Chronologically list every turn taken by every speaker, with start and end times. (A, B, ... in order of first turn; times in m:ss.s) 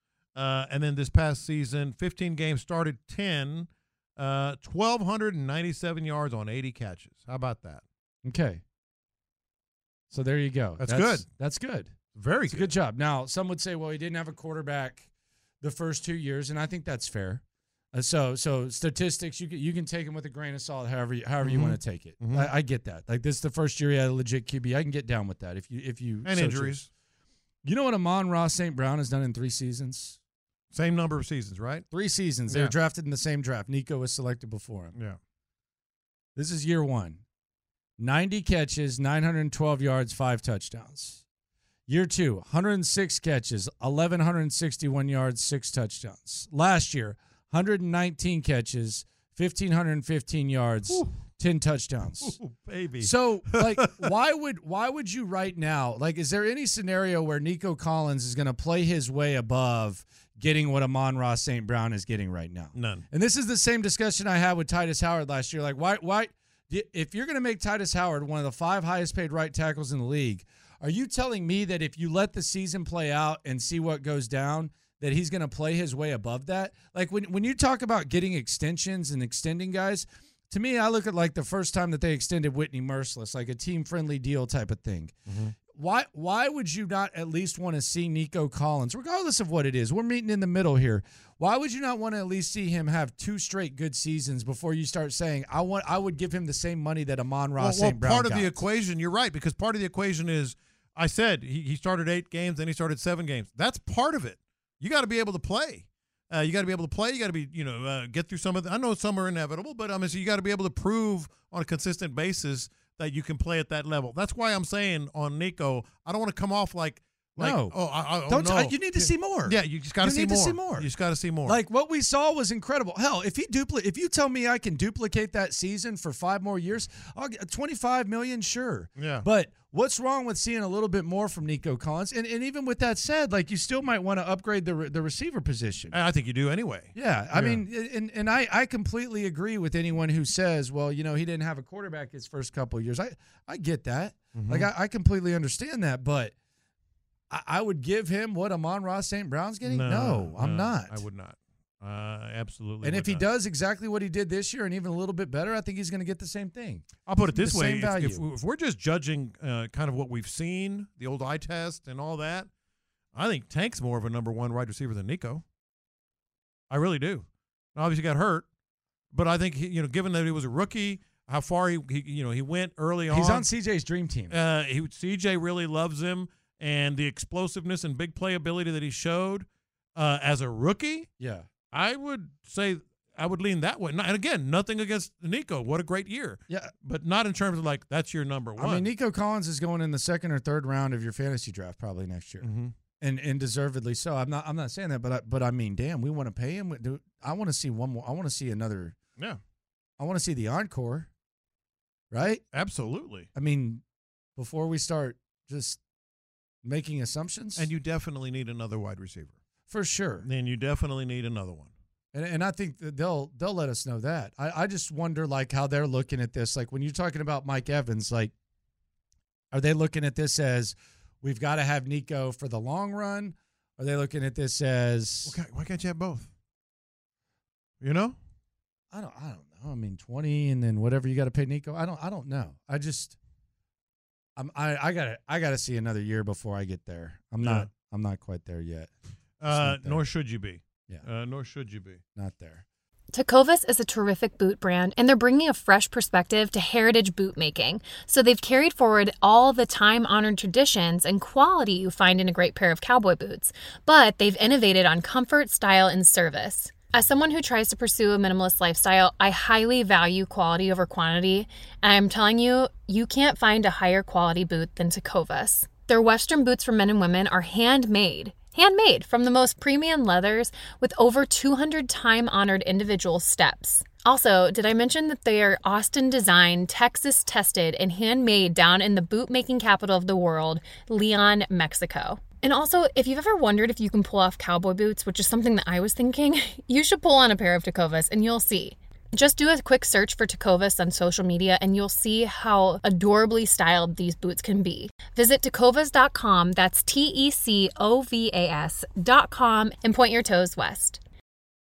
0:00.4-0:07.8 A
0:08.2-0:08.6 B
0:10.1-0:12.0 B
0:10.8-0:11.3 A
0:12.2-0:12.7 A
0:12.5-0:15.1 B
0:15.6-0:26.8 B
0:21.4-0:22.5 A
0:26.2-0:26.9 A
0:27.6-0:30.2 B
0:30.7-0:31.9 A
0:31.9-0:35.0 B
0:32.5-0:32.7 A
0:36.4-0:37.2 B
0:38.0-0:41.2 B
0:41.9-0:52.4 B
0:52.2-0:54.1 A
0:53.0-1:25.2 B
1:02.8-1:03.0 A
1:25.3-1:25.6 A
1:25.7-1:38.6 B
1:37.6-2:01.6 A
1:57.4-1:57.8 B
1:58.3-2:00.9 B
2:01.5-2:16.0 B
2:09.0-2:09.2 A
2:15.9-2:17.6 A
2:17.0-2:26.3 B
2:24.4-2:24.7 A
2:27.3-2:31.0 B
2:29.6-2:33.2 A
2:32.8-2:38.2 B
2:37.1-2:42.5 A
2:43.2-2:45.4 A
2:46.7-2:48.5 A
2:49.1-2:53.5 A
2:53.1-2:54.4 B
2:54.3-3:01.1 A
3:01.2-3:01.5 B
3:01.7-3:08.9 A
3:08.6-3:12.5 B
3:12.4-3:12.7 A
3:13.0-3:19.0 B
3:20.0-3:21.1 B
3:22.1-3:22.4 B
3:22.5-3:23.3 A
3:23.3-3:23.8 B
3:24.4-3:25.8 B
3:26.6-3:27.7 B
3:27.6-3:29.4 A
3:29.7-3:30.3 B
3:30.2-3:31.7 A
3:32.1-3:38.3 B
3:39.5-3:45.4 B
3:45.3-3:46.3 A
3:47.8-3:48.2 A
3:48.9-3:53.2 B
3:54.4-3:58.9 B
3:57.4-3:57.7 A
3:59.4-4:02.0 A
3:59.5-4:00.0 B
4:02.2-4:02.6 B
4:03.1-5:01.0 C